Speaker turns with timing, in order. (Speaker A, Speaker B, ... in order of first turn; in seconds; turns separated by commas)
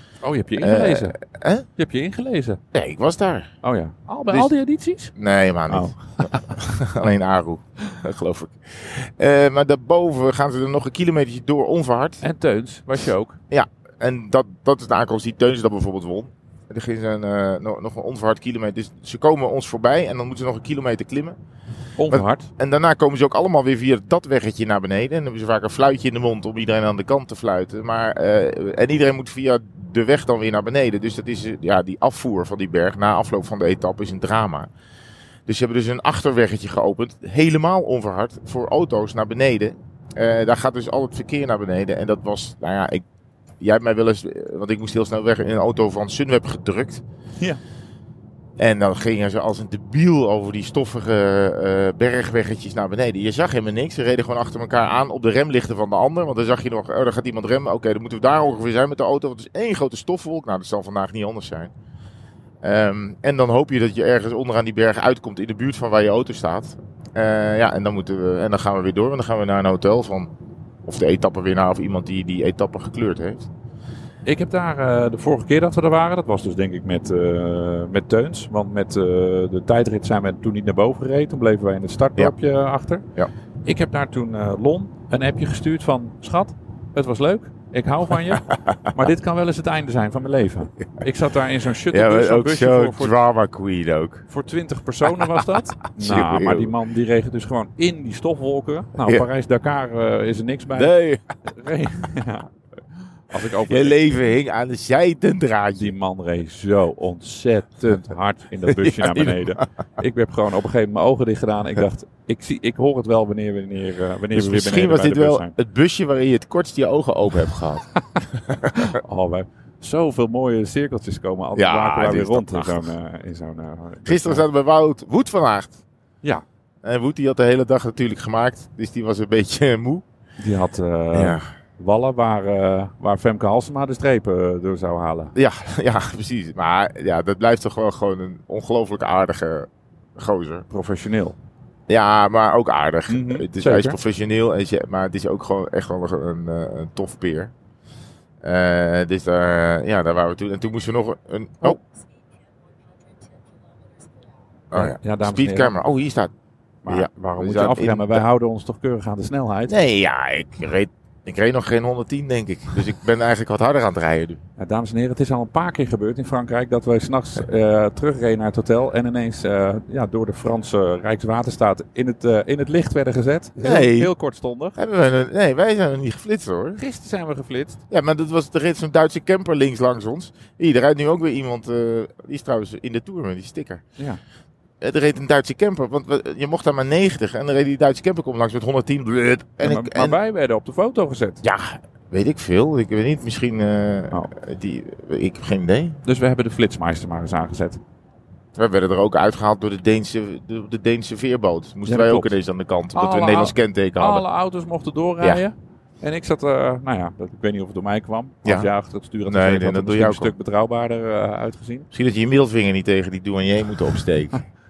Speaker A: 0.2-1.2, Speaker B: 0.6-1.7, Speaker A: 1.8-2.6, Speaker B: 2.7-3.5, Speaker A: 3.6-5.1, Speaker B: 5.2-12.2, Speaker A: 5.7-6.6, Speaker A: 12.2-13.4, Speaker B: 13.5-21.4, Speaker A: 22.0-22.5, Speaker B: 22.1-34.7, Speaker B: 35.5-43.0, Speaker B: 43.6-47.0, Speaker B: 48.6-61.7, Speaker B: 62.6-70.3, Speaker B: 70.8-73.5, Speaker A: 74.2-83.1, Speaker A: 83.7-93.2, Speaker B: 91.9-94.3, Speaker A: 94.3-100.9, Speaker B: 96.0-96.7, Speaker B: 100.7-101.2, Speaker A: 101.5-102.5, Speaker A: 103.3-104.3, Speaker B: 103.7-105.9, Speaker A: 105.8-115.5, Speaker B: 108.7-109.6, Speaker B: 114.3-117.9, Speaker B: 118.5-119.0, Speaker A: 118.8-124.4, Speaker B: 121.6-122.9, Speaker B: 124.1-125.8, Speaker B: 126.8-130.0, Speaker A: 130.4-135.3, Speaker B: 131.1-131.4, Speaker B: 135.3-140.7, Speaker A: 140.7-141.4, Speaker B: 141.9-147.5, Speaker A: 143.1-144.0, Speaker B: 148.4-151.8, Speaker B: 154.7-156.3, Speaker A: 154.7-155.7, Speaker A: 156.8-159.7, Speaker B: 156.9-158.2, Speaker B: 159.7-164.4, Speaker A: 164.6-174.8, Speaker B: 173.6-174.1, Speaker B: 174.8-176.8, Speaker A: 176.8-177.8, Speaker B: 177.9-183.8, Speaker B: 184.8-190.2, Speaker A: 189.6-191.4, Speaker B: 191.4-196.0, Speaker A: 196.1-197.8, Speaker B: 198.6-204.2, Speaker A: 201.9-202.3, Speaker A: 202.9-211.9, Speaker B: 208.4-208.7, Speaker B: 209.3-210.3, Speaker B: 211.9-214.4